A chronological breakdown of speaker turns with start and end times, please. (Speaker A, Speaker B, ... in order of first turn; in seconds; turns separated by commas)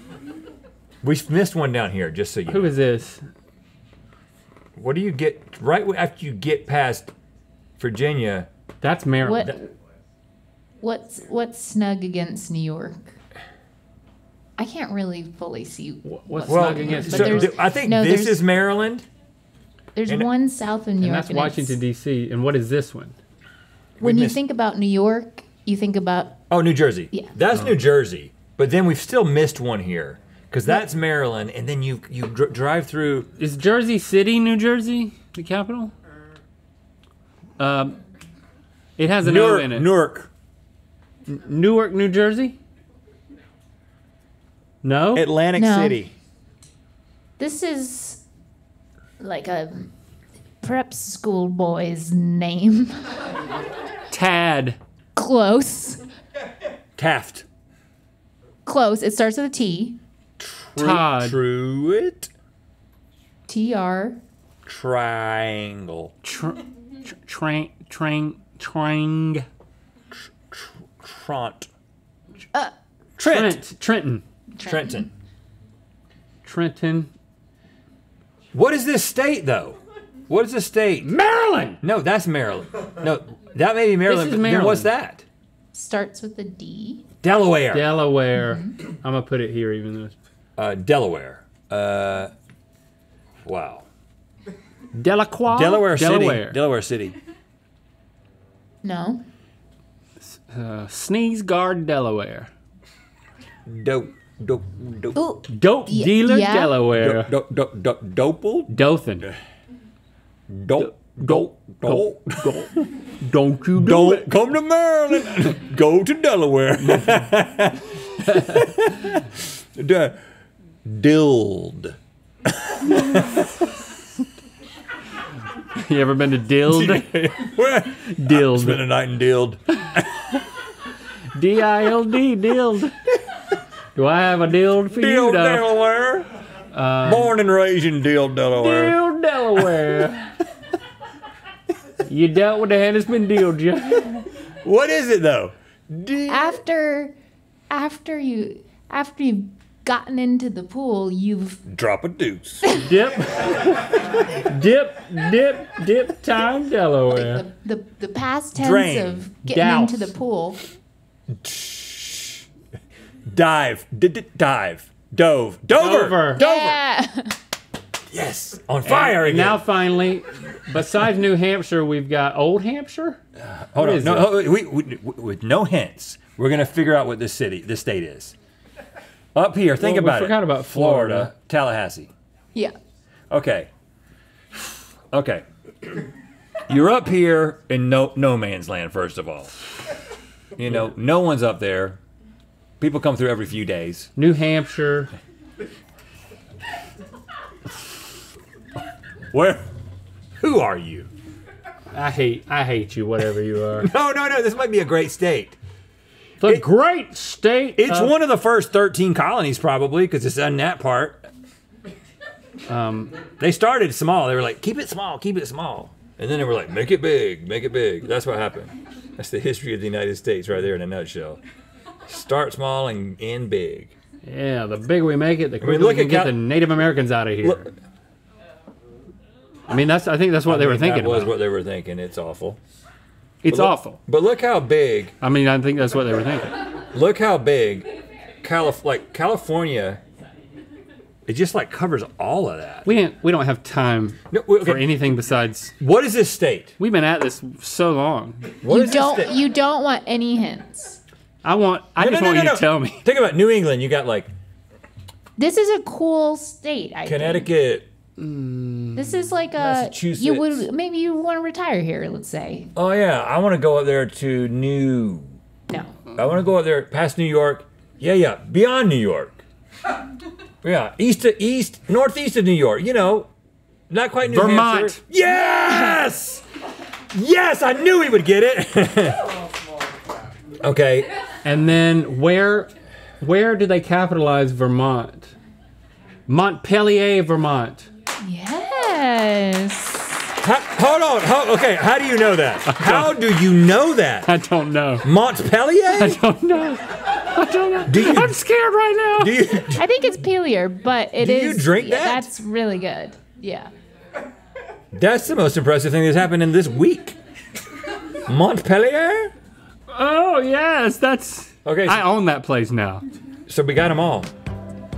Speaker A: 1.0-2.7, Speaker B: 2.5-3.3, Speaker A: 4.8-7.1, Speaker A: 7.8-8.5, Speaker B: 8.8-9.6, Speaker C: 9.2-9.6, Speaker C: 10.8-13.2, Speaker C: 14.6-18.4, Speaker B: 16.0-17.5, Speaker A: 16.5-19.1, Speaker C: 19.9-21.8, Speaker B: 21.0-23.1, Speaker A: 24.0-24.4, Speaker C: 24.0-26.4, Speaker A: 26.5-33.3, Speaker B: 33.4-35.9, Speaker B: 37.6-38.0, Speaker B: 39.0-39.9, Speaker A: 39.2-40.3, Speaker B: 41.3-42.6, Speaker B: 44.8-45.3, Speaker A: 45.1-46.1, Speaker C: 45.5-46.0, Speaker C: 47.4-48.2, Speaker C: 49.2-49.9, Speaker C: 50.6-53.1, Speaker B: 54.1-54.8, Speaker C: 55.1-56.0, Speaker A: 57.0-57.5, Speaker C: 58.6-60.0, Speaker A: 60.4-62.3, Speaker B: 60.8-61.4, Speaker C: 63.5-64.2, Speaker A: 64.7-66.1, Speaker B: 66.2-69.5, Speaker A: 70.2-71.7, Speaker B: 73.2-74.2, Speaker A: 73.2-73.6, Speaker C: 74.5-75.1, Speaker A: 74.6-75.1, Speaker B: 76.4-77.1, Speaker A: 78.5-81.1, Speaker B: 81.0-81.8, Speaker A: 81.8-85.2, Speaker B: 84.0-84.9, Speaker C: 85.7-87.0, Speaker A: 87.2-88.0, Speaker B: 87.7-90.2, Speaker C: 88.3-88.7, Speaker A: 90.6-92.3, Speaker A: 93.4-93.8, Speaker B: 94.9-96.6, Speaker A: 95.5-97.2, Speaker C: 98.8-99.2, Speaker B: 100.2-102.5, Speaker A: 103.7-105.2, Speaker C: 105.1-106.8, Speaker B: 105.5-107.3, Speaker A: 107.0-109.3, Speaker B: 108.7-109.3, Speaker A: 110.5-112.9, Speaker B: 110.8-114.3, Speaker A: 113.8-120.2, Speaker B: 116.9-117.2, Speaker A: 120.8-123.5, Speaker B: 125.7-127.4, Speaker A: 126.7-130.0, Speaker B: 128.0-128.8, Speaker B: 131.3-132.9, Speaker B: 133.9-135.7, Speaker A: 134.9-136.3, Speaker B: 136.7-137.3, Speaker A: 137.0-139.0, Speaker B: 138.6-140.4, Speaker B: 142.0-144.3, Speaker A: 144.6-146.6, Speaker C: 146.3-147.1, Speaker C: 147.7-151.6, Speaker A: 151.7-152.6, Speaker B: 152.7-157.4, Speaker C: 157.1-160.6, Speaker A: 158.5-159.3, Speaker B: 159.4-160.1, Speaker A: 161.3-162.4, Speaker A: 163.3-166.7, Speaker B: 165.7-166.7, Speaker C: 166.3-167.4, Speaker A: 168.1-169.6, Speaker B: 168.8-173.2, Speaker A: 173.4-178.3, Speaker B: 173.8-174.4, Speaker A: 179.3-182.1, Speaker B: 179.8-181.3, Speaker A: 183.3-183.7, Speaker A: 184.5-186.0, Speaker A: 186.7-189.5, Speaker A: 190.6-192.0, Speaker A: 192.8-194.1, Speaker B: 194.2-195.1, Speaker A: 199.3-199.7, Speaker A: 200.4-201.1, Speaker B: 201.9-203.9, Speaker A: 203.8-205.6, Speaker B: 206.4-208.1, Speaker A: 207.8-211.2, Speaker B: 212.7-213.1, Speaker A: 213.4-221.4, Speaker A: 222.1-223.9, Speaker B: 224.2-227.7, Speaker A: 225.6-226.4, Speaker B: 229.7-231.3, Speaker A: 230.5-232.6, Speaker B: 233.4-234.0, Speaker A: 233.5-235.1, Speaker B: 235.2-236.5, Speaker A: 236.9-237.9, Speaker A: 238.4-240.0, Speaker A: 241.3-242.9, Speaker B: 242.8-245.7, Speaker A: 244.3-245.1, Speaker A: 245.8-246.7, Speaker B: 246.8-248.6, Speaker A: 248.6-249.4, Speaker C: 248.6-251.0, Speaker B: 251.4-253.1, Speaker A: 252.0-254.3, Speaker C: 255.4-257.5, Speaker A: 257.0-257.9, Speaker B: 258.2-259.1, Speaker C: 258.9-262.7, Speaker A: 259.6-260.7, Speaker A: 262.8-265.4, Speaker C: 265.7-266.1, Speaker A: 266.1-269.4, Speaker A: 270.6-273.3, Speaker A: 273.9-276.4, Speaker B: 274.2-275.0, Speaker C: 275.5-276.0, Speaker A: 277.1-279.3, Speaker A: 280.6-281.1, Speaker B: 281.4-285.3, Speaker B: 286.3-287.9, Speaker C: 288.2-290.3, Speaker A: 290.4-294.3, Speaker B: 292.6-293.1, Speaker B: 294.2-295.1, Speaker A: 295.0-296.2, Speaker B: 295.9-299.4, Speaker A: 297.9-298.4, Speaker A: 299.2-299.9, Speaker C: 299.7-303.7, Speaker A: 301.2-302.3, Speaker A: 304.9-307.2, Speaker A: 308.2-309.3, Speaker B: 309.9-313.0, Speaker A: 311.6-312.1, Speaker A: 313.5-314.3